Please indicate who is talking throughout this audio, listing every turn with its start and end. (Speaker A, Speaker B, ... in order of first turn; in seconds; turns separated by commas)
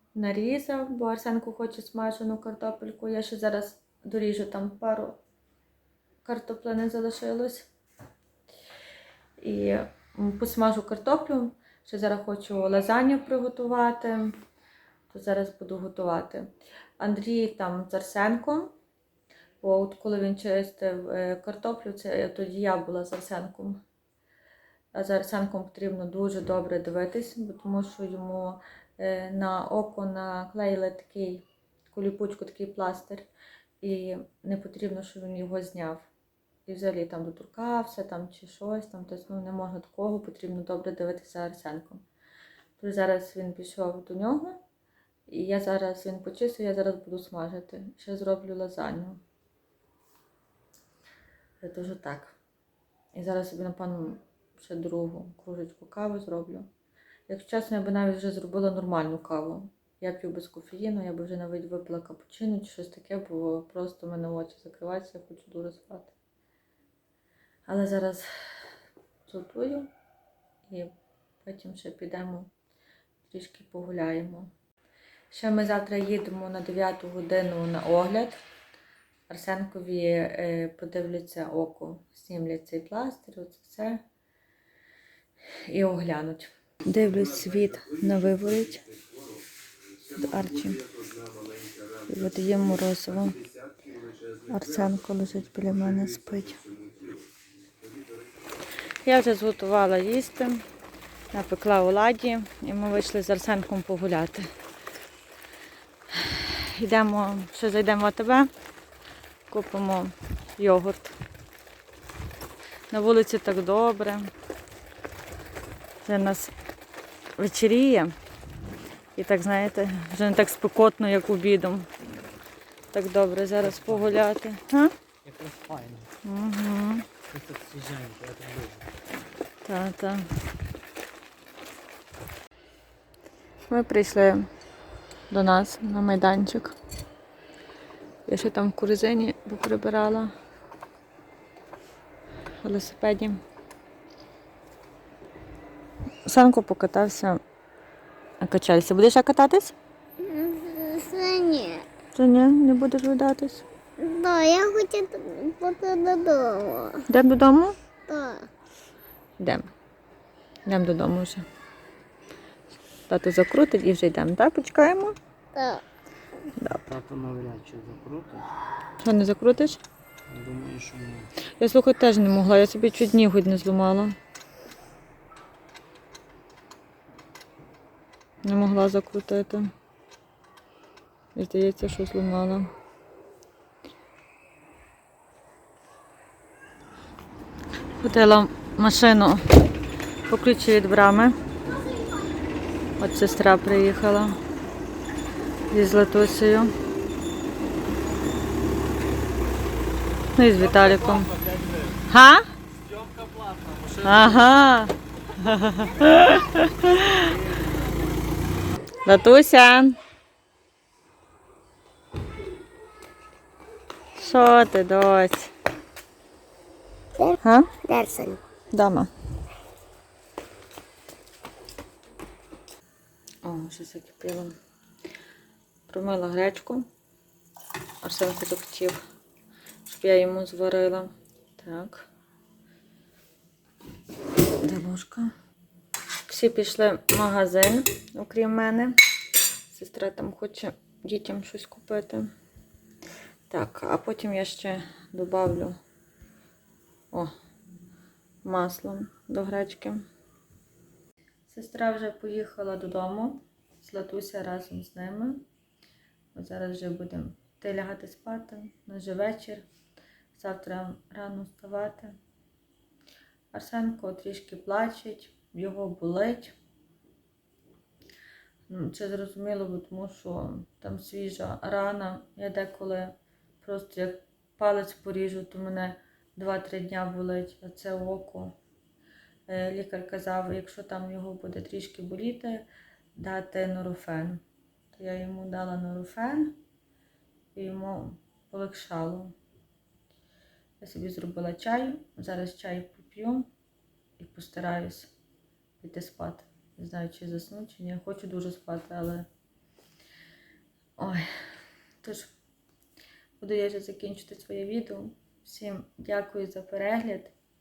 Speaker A: 0.1-5.2, Speaker A: 6.2-7.7, Speaker A: 9.4-14.4, Speaker A: 15.1-18.7, Speaker A: 19.6-23.8, Speaker A: 24.9-33.3, Speaker A: 33.8-36.1, Speaker A: 36.6-42.0, Speaker A: 42.8-44.6, Speaker A: 45.3-49.2, Speaker A: 51.6-52.4, Speaker A: 53.1-56.7, Speaker A: 57.3-66.1, Speaker A: 67.7-68.7, Speaker A: 69.2-69.9, Speaker A: 70.7-72.5, Speaker A: 73.2-74.5, Speaker A: 75.3-78.4, Speaker A: 79.3-84.0, Speaker A: 85.7-88.8, Speaker A: 90.1-90.8, Speaker A: 92.1-93.4, Speaker A: 94.5-96.6, Speaker A: 99.0-100.6, Speaker A: 101.3-104.5, Speaker A: 106.1-108.5, Speaker A: 109.5-111.2, Speaker A: 112.9-114.3, Speaker A: 116.0-116.5, Speaker A: 117.4-118.1, Speaker A: 119.2-121.9, Speaker A: 122.9-124.9, Speaker B: 123.6-124.1, Speaker B: 125.2-126.1, Speaker A: 126.2-127.1, Speaker B: 127.3-128.9, Speaker A: 129.6-130.3, Speaker A: 133.7-134.5, Speaker A: 135.3-136.8, Speaker A: 138.2-140.3, Speaker A: 142.6-143.4, Speaker A: 146.2-147.4, Speaker A: 148.4-149.7, Speaker C: 150.2-151.8, Speaker A: 152.1-153.6, Speaker C: 154.0-157.0, Speaker A: 157.1-157.8, Speaker C: 158.1-158.5, Speaker A: 159.4-159.7, Speaker A: 160.7-161.4, Speaker A: 163.1-165.2, Speaker C: 165.5-165.8, Speaker A: 166.6-166.8, Speaker A: 169.0-169.8, Speaker A: 171.6-174.2, Speaker A: 178.4-179.7, Speaker A: 181.3-182.7, Speaker A: 188.0-189.7, Speaker A: 190.3-191.3, Speaker A: 193.0-194.4, Speaker A: 195.7-196.7, Speaker A: 200.3-201.4, Speaker A: 202.1-202.5, Speaker A: 204.0-207.4, Speaker A: 209.0-210.0, Speaker A: 214.1-215.5, Speaker C: 217.2-218.4, Speaker A: 217.4-217.8, Speaker A: 218.7-219.1, Speaker A: 223.4-224.6, Speaker A: 225.9-226.9, Speaker A: 228.0-229.0, Speaker A: 229.8-232.1, Speaker A: 234.6-235.3, Speaker A: 236.3-238.9, Speaker A: 239.7-242.3, Speaker A: 243.5-245.8, Speaker A: 248.4-250.1, Speaker A: 251.5-255.4, Speaker A: 256.3-259.7, Speaker A: 260.3-262.2, Speaker A: 263.5-266.5, Speaker A: 268.7-278.6, Speaker A: 279.5-286.6, Speaker A: 287.5-289.3, Speaker A: 290.8-293.5, Speaker A: 294.2-295.1, Speaker A: 295.8-299.3, Speaker A: 301.0-301.3, Speaker A: 302.0-302.3, Speaker A: 303.4-307.3